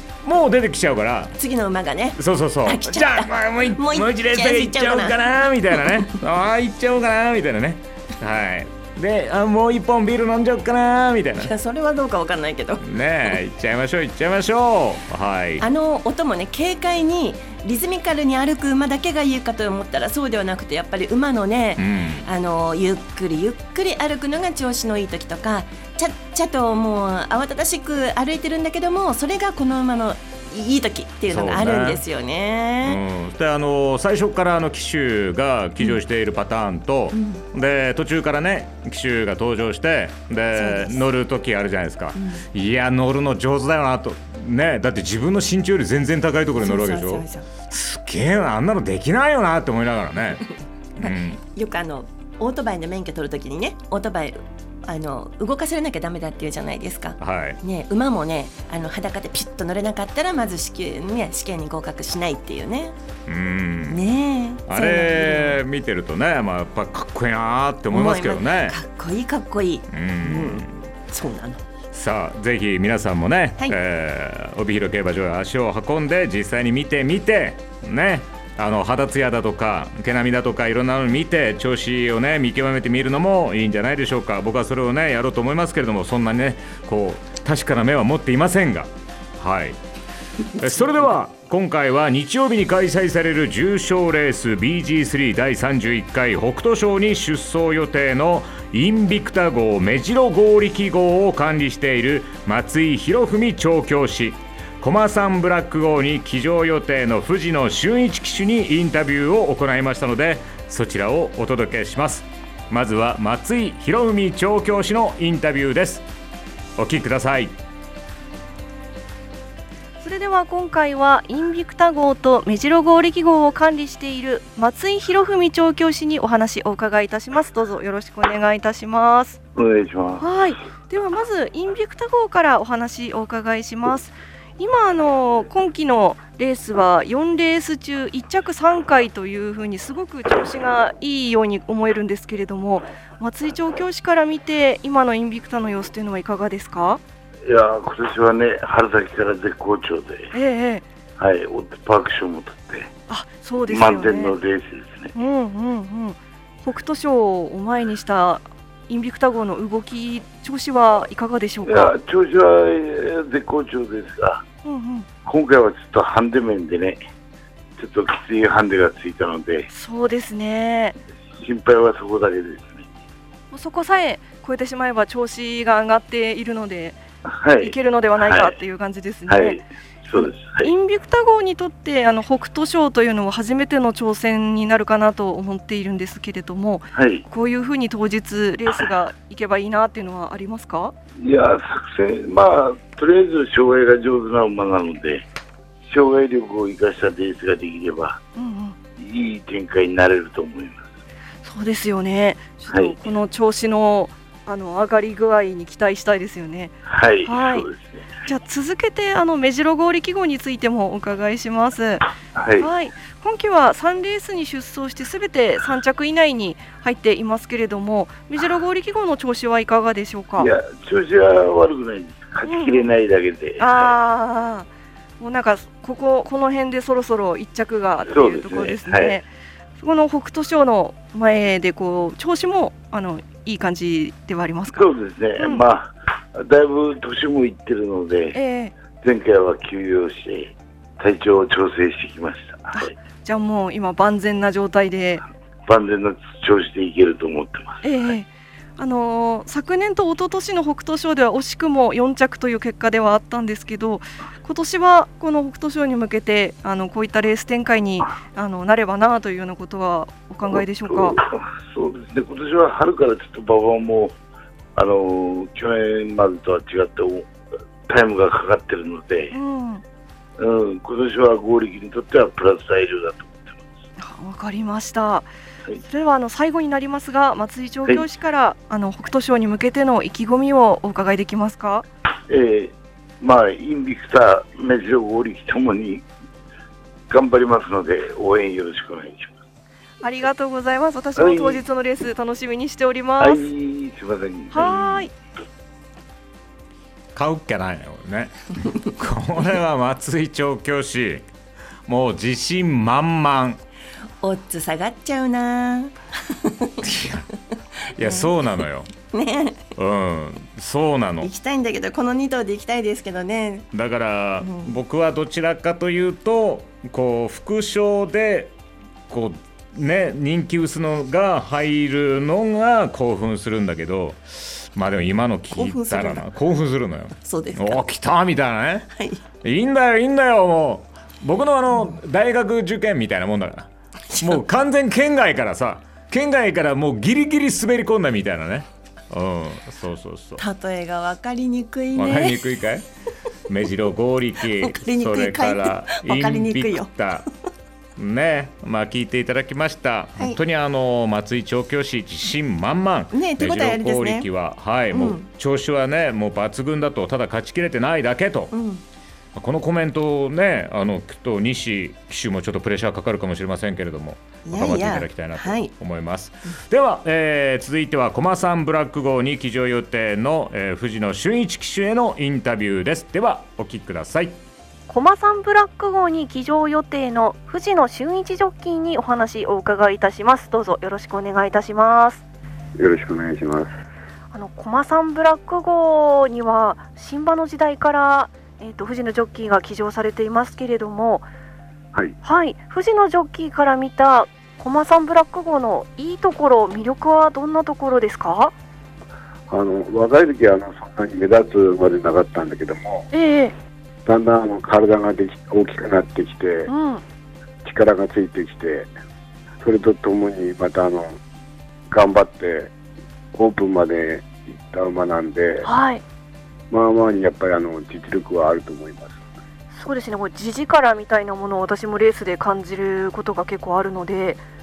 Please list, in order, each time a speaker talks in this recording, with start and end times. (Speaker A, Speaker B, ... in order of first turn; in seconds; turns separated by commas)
Speaker A: 0.2-1.3, Speaker B: 1.4-5.2, Speaker A: 2.2-11.5, Speaker B: 11.4-12.8, Speaker A: 12.8-15.6, Speaker B: 15.6-33.0, Speaker A: 21.8-22.2, Speaker A: 31.3-32.0, Speaker A: 32.8-50.4, Speaker B: 37.1-37.4, Speaker B: 40.5-41.0, Speaker B: 42.1-42.4, Speaker B: 46.5-47.5, Speaker A: 51.0-51.4, Speaker B: 51.0-63.0, Speaker A: 57.2-57.6, Speaker A: 63.3-64.0, Speaker B: 63.9-65.6, Speaker A: 64.7-68.8, Speaker B: 67.9-71.6, Speaker A: 69.9-70.7, Speaker A: 71.9-89.8, Speaker A: 90.6-116.0, Speaker A: 116.8-117.5, Speaker C: 120.0-129.4, Speaker D: 129.5-130.3, Speaker C: 130.2-147.0, Speaker D: 147.4-150.3, Speaker C: 150.3-150.8, Speaker D: 151.2-152.9, Speaker C: 153.1-154.3, Speaker D: 153.7-155.1, Speaker C: 155.1-161.9, Speaker D: 161.6-164.4, Speaker C: 164.6-165.1, Speaker D: 165.2-167.0, Speaker D: 167.8-169.7, Speaker C: 169.7-170.9, Speaker D: 171.3-172.9, Speaker C: 173.5-177.0, Speaker D: 177.3-178.6, Speaker C: 177.6-179.6, Speaker D: 179.3-180.7, Speaker C: 180.1-190.9, Speaker D: 186.9-187.2, Speaker D: 191.2-195.2, Speaker D: 195.9-198.2, Speaker C: 198.3-198.8, Speaker D: 199.0-200.9, Speaker C: 201.4-207.7, Speaker D: 202.7-203.0, Speaker D: 206.9-208.1, Speaker C: 208.2-212.0, Speaker D: 212.3-212.7, Speaker C: 212.6-220.5, Speaker D: 220.4-223.9, Speaker C: 222.4-222.9, Speaker C: 223.6-224.7, Speaker C: 225.2-235.6, Speaker D: 228.1-229.2, Speaker D: 234.7-238.4, Speaker C: 238.3-238.7, Speaker D: 238.9-242.9, Speaker C: 242.7-245.2, Speaker D: 245.7-248.1, Speaker C: 247.8-261.2, Speaker D: 260.5-264.1, Speaker D: 264.8-267.3, Speaker D: 267.9-269.4, Speaker C: 269.3-269.8, Speaker D: 270.4-273.6, Speaker C: 274.0-275.3, Speaker C: 275.9-281.9, Speaker D: 282.3-286.0, Speaker D: 287.1-289.3, Speaker C: 290.0-293.4, Speaker D: 291.1-291.6, Speaker D: 293.2-295.1, Speaker C: 294.5-295.1, Speaker A: 297.1-301.2, Speaker A: 301.9-303.6, Speaker B: 304.2-306.8, Speaker A: 306.8-307.3, Speaker A: 307.9-308.9, Speaker B: 308.0-308.3, Speaker B: 309.1-309.6, Speaker A: 309.8-311.3, Speaker B: 311.2-313.7, Speaker A: 313.7-318.5, Speaker B: 314.4-314.7, Speaker A: 319.1-328.9, Speaker B: 325.5-326.3, Speaker B: 327.2-327.8, Speaker B: 328.9-329.2, Speaker A: 329.4-333.7, Speaker A: 334.2-340.4, Speaker B: 340.4-342.4, Speaker A: 341.9-342.8, Speaker A: 343.5-347.2, Speaker B: 344.6-346.9, Speaker A: 348.0-358.5, Speaker B: 353.1-354.3, Speaker B: 354.9-355.3, Speaker B: 358.5-358.8, Speaker A: 359.4-374.4, Speaker B: 364.4-365.7, Speaker C: 374.9-382.2, Speaker E: 382.8-383.7, Speaker C: 384.3-391.3, Speaker C: 392.2-398.5, Speaker E: 399.5-403.1, Speaker C: 403.1-403.5, Speaker E: 404.1-406.7, Speaker C: 406.7-407.0, Speaker E: 407.6-408.9, Speaker E: 409.6-411.1, Speaker E: 411.9-412.7, Speaker E: 413.3-415.6, Speaker C: 415.6-416.0, Speaker E: 416.7-419.2, Speaker C: 419.8-424.4